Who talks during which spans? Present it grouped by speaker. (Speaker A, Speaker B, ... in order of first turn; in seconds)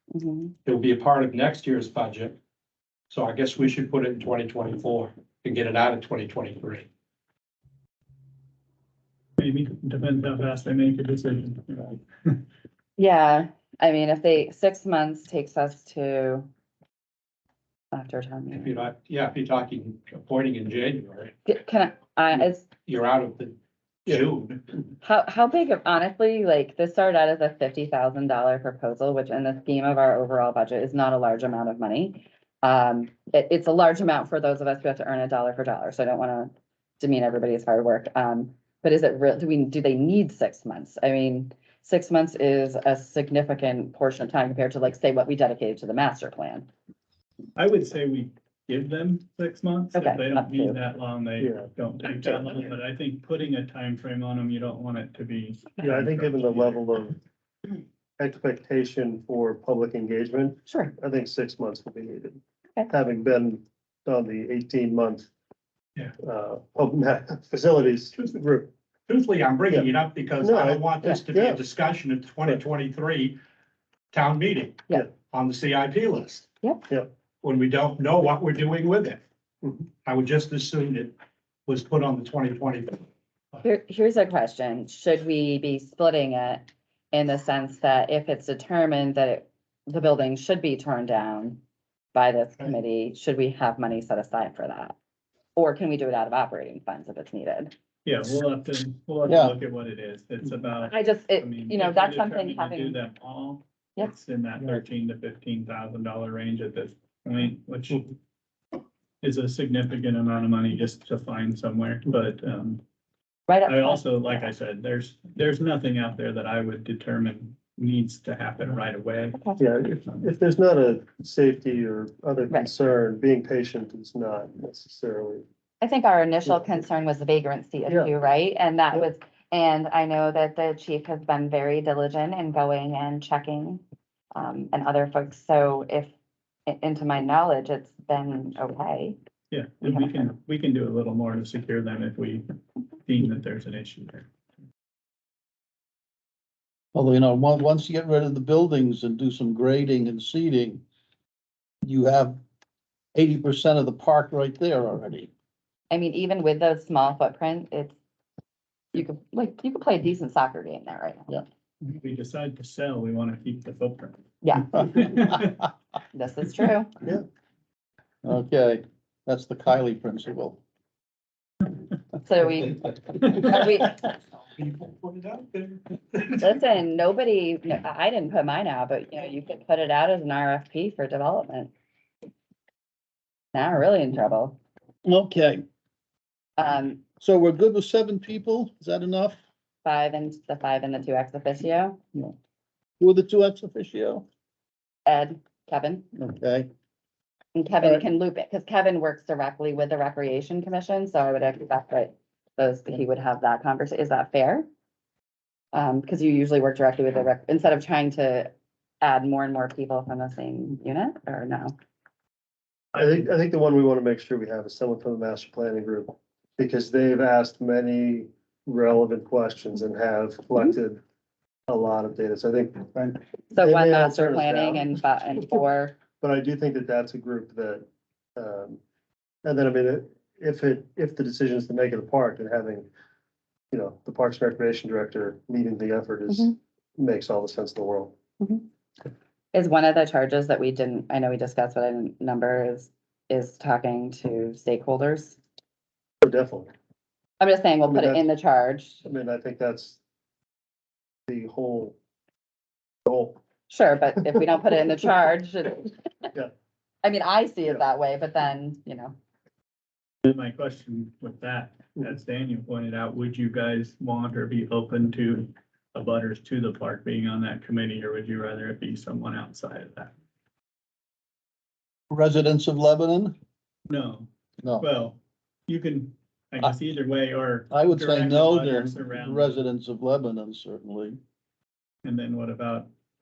Speaker A: 0.1-0.5, 13.0-16.5, 17.9-18.8, 21.4-22.7, 25.0-46.7, 49.9-50.8, 60.7-60.9, 83.6-91.6, 92.1-95.0, 95.5-97.7, 100.9-103.0, 113.5-114.5, 119.3-119.6, 125.8-133.8, 134.3-136.1, 136.7-139.2, 139.8-140.1, 155.9-158.0, 158.9-161.3, 164.4-164.8, 166.1-166.9, 172.2-174.1, 176.4-181.7, 183.5-184.6, 186.6-187.0, 189.8-192.0, 195.1-196.1, 197.5-204.7, 205.7-211.7, 223.5-226.0, 236.3-236.5, 239.5-245.4, 247.4-249.0, 253.7-256.3, 257.0-259.1
Speaker B: 0.6-2.4, 3.1-6.9, 18.5-21.4, 22.4-24.6, 69.1-73.4, 74.1-76.5, 77.4-79.2, 80.0-81.1, 81.7-83.0, 174.6-176.4
Speaker C: 9.4-12.4, 47.5-56.8, 98.0-108.1, 109.2-112.8, 113.7-119.4, 139.5-142.4, 143.0-144.3, 161.8-164.2, 164.8-165.5, 212.9-213.2, 260.2-270.1, 273.9-279.6, 282.0-282.9
Speaker D: 51.4-51.7, 52.2-52.6, 55.8-57.2, 58.2-65.3, 66.2-68.7, 70.4-71.7, 119.6-125.4, 212.9-221.0, 221.7-224.9, 226.2-228.8, 229.4-232.9, 233.7-238.1, 246.2-246.7, 247.9-248.2, 249.0-250.0, 251.3-251.9, 253.0-253.4
Speaker E: 99.3-99.5, 146.9-150.8, 151.8-152.4, 153.1-155.3, 168.2-170.6, 185.0-185.6, 187.2-189.4, 193.0-194.2, 196.1-196.7, 272.1-273.4, 277.7-281.2